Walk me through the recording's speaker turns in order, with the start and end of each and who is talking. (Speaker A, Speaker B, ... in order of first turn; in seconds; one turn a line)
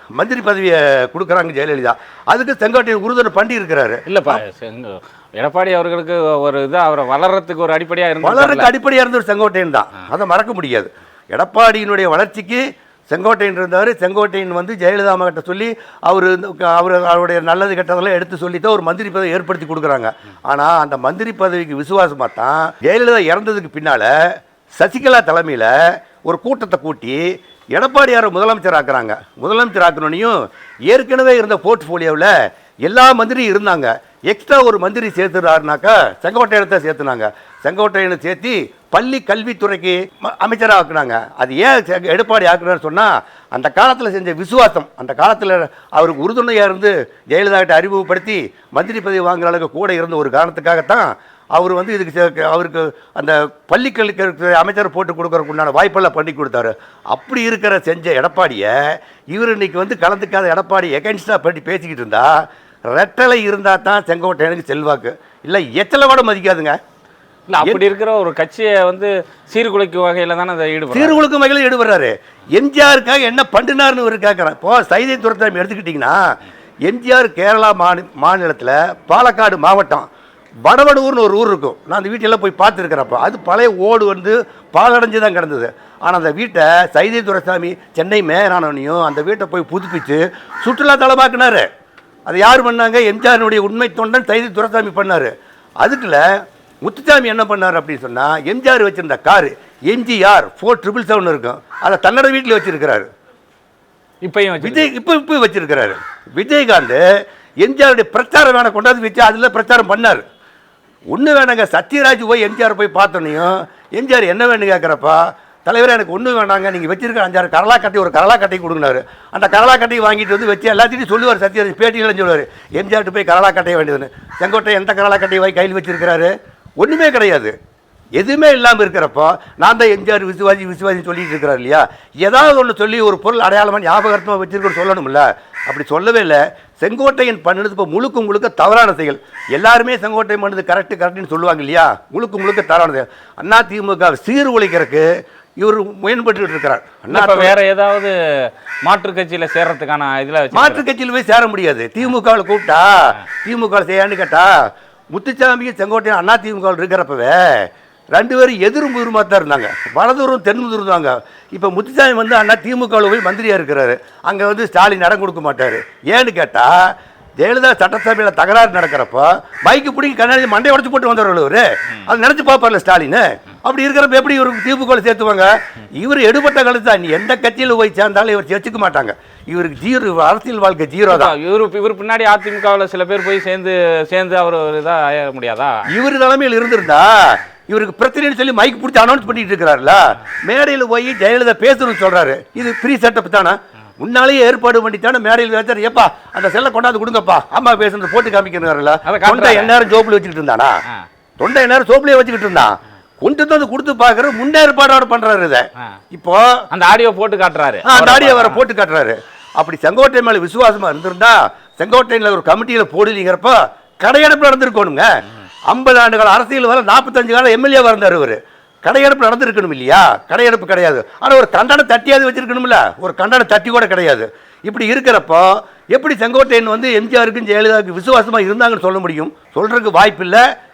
Speaker A: 0.1-4.4
Speaker B: 4.1-8.7
Speaker A: 8.2-32.3
Speaker A: 32.8-66.8
Speaker B: 67.5-71.2
Speaker A: 70.9-76.3
Speaker A: 76.8-80.1
Speaker A: 80.7-91.7
Speaker A: 92.3-95.3
Speaker A: 95.8-96.3
Speaker A: 96.8-103.1
Speaker B: 104.2-104.9
Speaker A: 104.6-107.0
Speaker A: 107.6-110.2
Speaker A: 111.1-127.5
Speaker A: 128.2-145.1
Speaker A: 145.6-147.5
Speaker B: 147.1-150.8
Speaker A: 150.5-154.5
Speaker A: 155.1-181.3
Speaker B: 181.1-185.9
Speaker A: 185.9-200.8
Speaker B: 199.1-199.8
Speaker A: 201.4-206.7
Speaker B: 206.7-208.6
Speaker A: 207.8-215.1
Speaker A: 215.7-230.4